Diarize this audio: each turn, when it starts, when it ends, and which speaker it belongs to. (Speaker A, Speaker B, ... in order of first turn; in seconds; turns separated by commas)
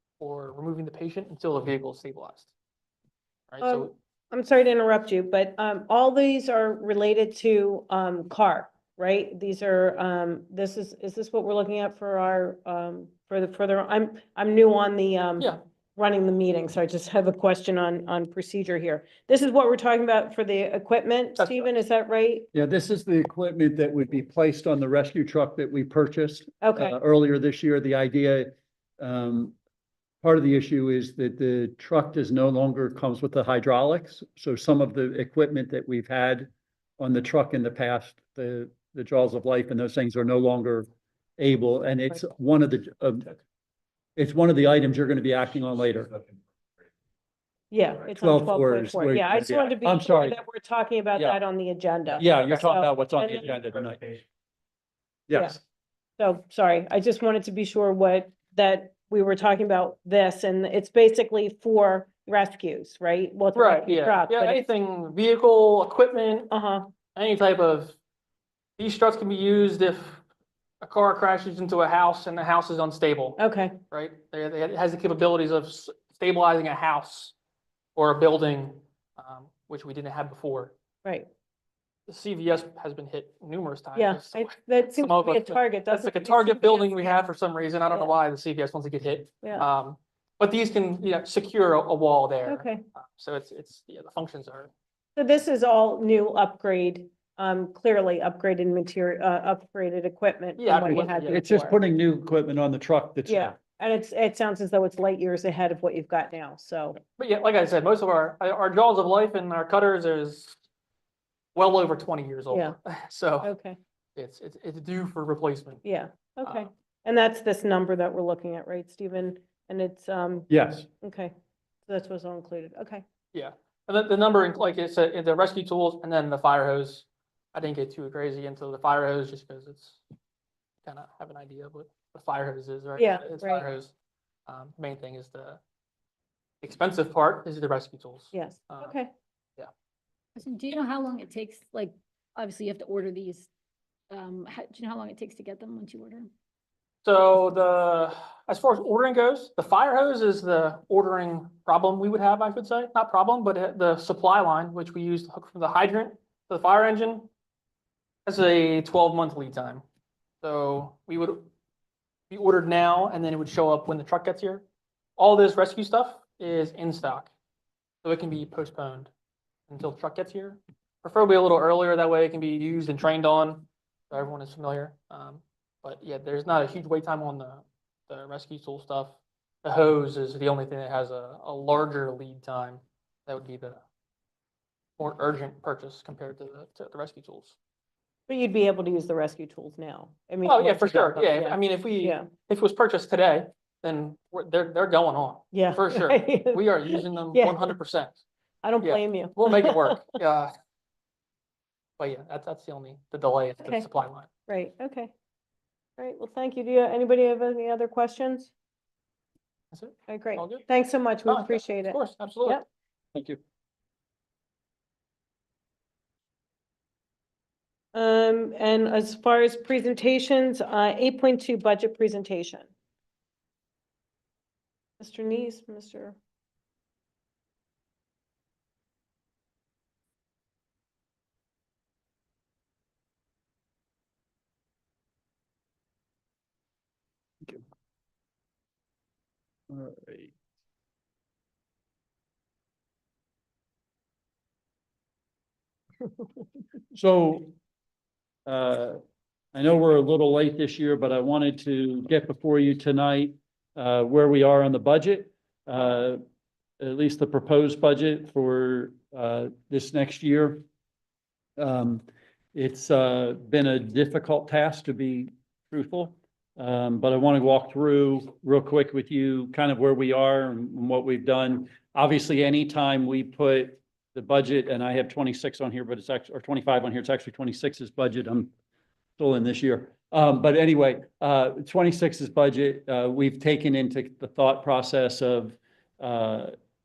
Speaker A: 0.2-2.5, Speaker A: 3.5-3.9, Speaker B: 3.6-22.5, Speaker A: 21.4-21.7, Speaker C: 22.5-29.5, Speaker B: 26.6-26.9, Speaker C: 30.2-40.9, Speaker C: 41.4-43.4, Speaker C: 44.2-46.1, Speaker B: 47.7-53.5, Speaker C: 48.2-50.4, Speaker C: 52.2-54.2, Speaker C: 55.3-55.6, Speaker B: 55.3-55.6, Speaker B: 56.2-64.6, Speaker A: 63.5-66.5, Speaker B: 66.5-66.9, Speaker A: 67.1-68.0, Speaker A: 68.8-70.2, Speaker A: 70.8-77.3, Speaker B: 73.4-73.8, Speaker A: 78.0-80.7, Speaker A: 82.1-94.7, Speaker B: 83.9-87.1, Speaker B: 89.4-89.7, Speaker B: 92.5-92.8, Speaker B: 95.2-101.4, Speaker A: 100.6-101.8, Speaker C: 100.7-103.5, Speaker B: 103.3-107.0, Speaker A: 107.2-110.6, Speaker A: 111.5-113.5, Speaker B: 112.5-112.8, Speaker B: 113.4-113.8, Speaker A: 114.2-115.8, Speaker B: 115.8-120.5, Speaker C: 120.5-120.8, Speaker B: 121.0-121.3, Speaker B: 121.8-123.0, Speaker A: 123.3-130.0, Speaker A: 130.8-133.9, Speaker B: 133.0-133.6, Speaker A: 134.5-135.6, Speaker A: 136.6-138.9, Speaker B: 138.3-139.1, Speaker D: 140.3-143.5, Speaker D: 144.1-146.3, Speaker A: 147.0-157.3, Speaker A: 158.2-159.8, Speaker A: 160.4-161.5, Speaker A: 162.3-164.6, Speaker A: 165.2-167.3, Speaker A: 168.0-169.1, Speaker A: 169.7-183.8, Speaker A: 185.0-187.6, Speaker B: 188.3-192.3, Speaker A: 190.4-198.2, Speaker B: 195.5-197.7, Speaker B: 198.6-200.2, Speaker A: 198.8-200.5, Speaker A: 202.0-204.3, Speaker B: 204.5-205.1, Speaker B: 206.0-208.5, Speaker A: 209.7-210.6, Speaker B: 210.1-212.7, Speaker A: 211.2-212.6, Speaker C: 213.1-213.4, Speaker B: 217.9-222.7, Speaker B: 225.0-226.2, Speaker C: 239.7-240.3, Speaker C: 246.9-247.5, Speaker C: 248.4-249.0, Speaker C: 249.5-256.2, Speaker C: 256.8-260.6, Speaker C: 261.6-278.5, Speaker C: 279.2-286.5